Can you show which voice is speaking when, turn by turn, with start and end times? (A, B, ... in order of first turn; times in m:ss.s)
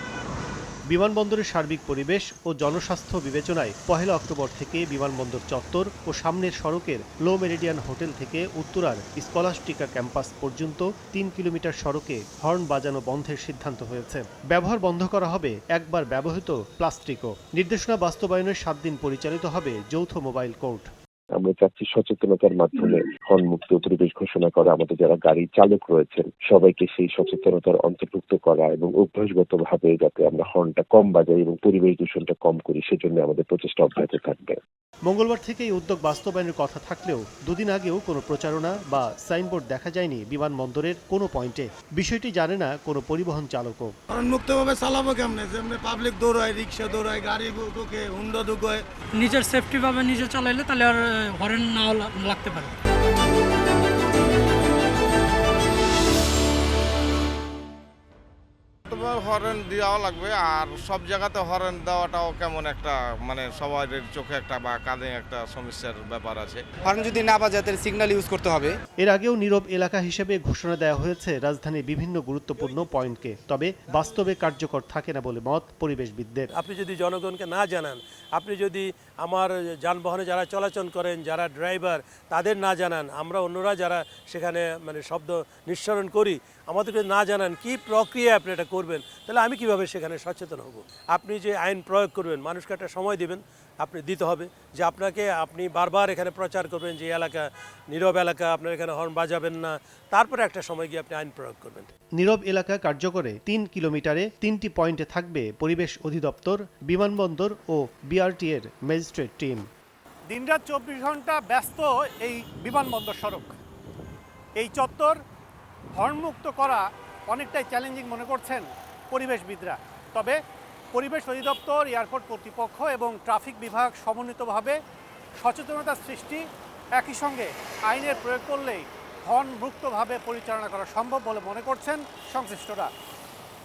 0:00.9-0:20.9 A
0:21.3-0:34.6 B
0:35.1-0:43.9 A
0:44.1-0:48.9 C
0:49.2-0:52.8 D
0:58.9-1:06.7 E
1:06.8-1:08.8 F
1:09.0-1:16.5 A
1:16.6-1:41.9 G
1:42.2-1:49.6 A
1:50.3-1:53.5 H
1:54.6-1:55.2 H
1:55.9-2:00.4 H
2:00.9-2:04.8 H
2:05.4-2:06.4 H
2:07.0-2:12.9 H